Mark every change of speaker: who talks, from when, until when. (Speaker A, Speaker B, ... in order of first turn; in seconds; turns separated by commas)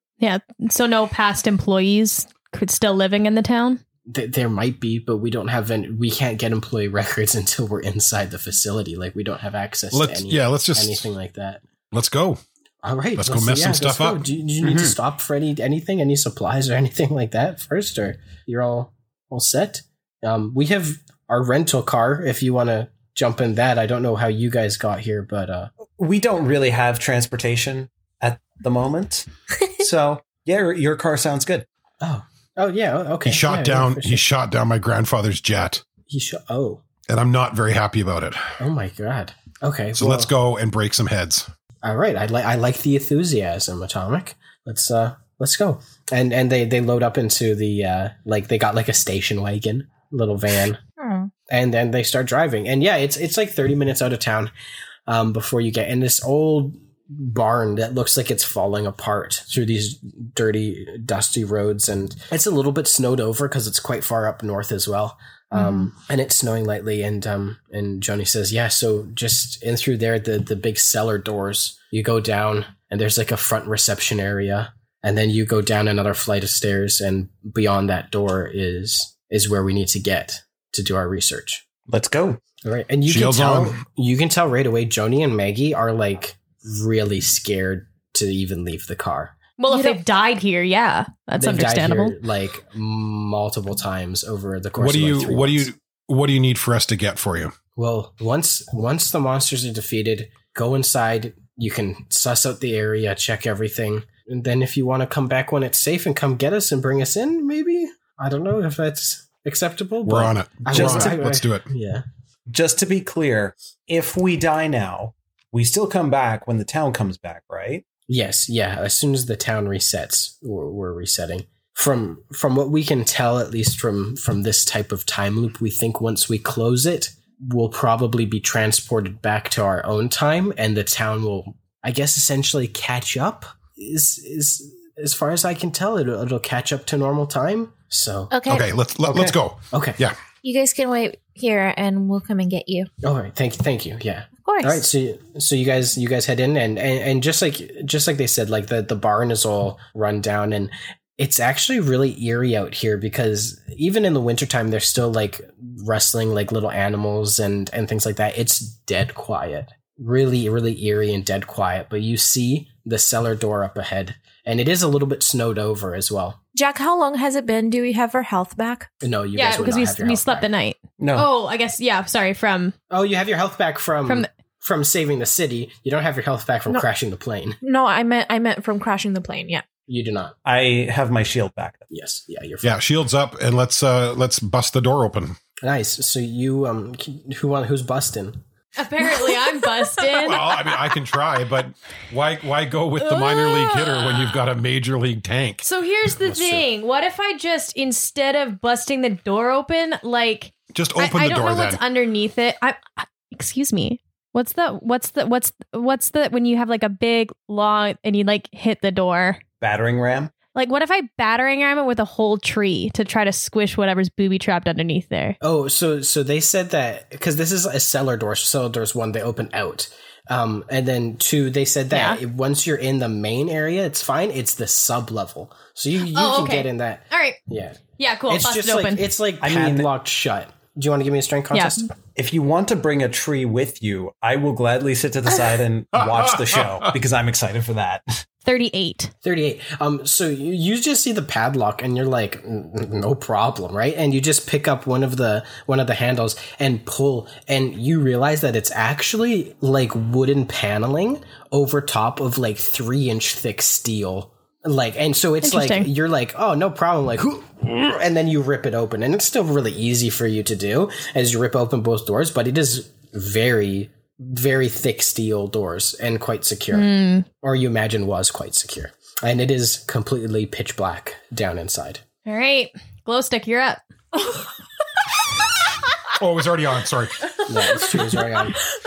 Speaker A: 0.2-3.8, Speaker B: 4.1-11.6, Speaker C: 9.9-11.1, Speaker C: 11.9-12.4, Speaker B: 12.8-25.7, Speaker C: 13.2-14.2, Speaker D: 26.0-29.2, Speaker D: 29.8-31.6, Speaker B: 32.0-34.2, Speaker C: 33.2-35.8, Speaker B: 36.1-36.8, Speaker C: 37.1-38.5, Speaker B: 38.6-40.3, Speaker C: 40.0-41.5, Speaker B: 41.8-50.8, Speaker E: 51.0-51.3, Speaker B: 51.5-54.5, Speaker B: 55.1-81.6, Speaker D: 81.9-82.4, Speaker B: 82.6-89.3, Speaker C: 83.0-83.8, Speaker A: 89.6-92.2, Speaker B: 91.4-95.7, Speaker C: 94.8-97.5, Speaker B: 97.8-112.0, Speaker C: 110.0-111.7, Speaker D: 110.7-111.1, Speaker D: 112.5-117.8, Speaker B: 118.1-138.3, Speaker E: 138.3-138.7, Speaker C: 138.5-140.2, Speaker B: 139.1-140.0, Speaker E: 140.4-142.9, Speaker B: 143.0-166.4, Speaker E: 144.4-144.8, Speaker F: 166.5-168.9, Speaker B: 169.0-170.5, Speaker A: 169.3-172.7, Speaker D: 171.0-171.3, Speaker B: 172.9-177.6, Speaker F: 177.6-179.6, Speaker B: 179.9-180.3, Speaker D: 180.4-181.9, Speaker B: 181.9-182.8, Speaker C: 182.6-185.4, Speaker B: 185.6-188.4, Speaker A: 188.8-190.6, Speaker C: 190.2-195.7, Speaker A: 193.0-194.3, Speaker A: 195.6-209.4, Speaker C: 200.7-201.8, Speaker D: 209.6-210.3, Speaker A: 210.5-215.4, Speaker B: 215.4-231.9, Speaker A: 221.9-222.2, Speaker A: 226.0-227.4, Speaker A: 228.0-229.1, Speaker D: 229.4-229.9, Speaker A: 231.5-231.8, Speaker D: 232.1-238.0, Speaker C: 236.2-236.9, Speaker A: 238.4-239.1, Speaker B: 239.2-272.0, Speaker A: 255.4-255.9, Speaker A: 266.7-267.2, Speaker A: 272.2-274.4, Speaker C: 276.1-277.3, Speaker B: 277.4-278.6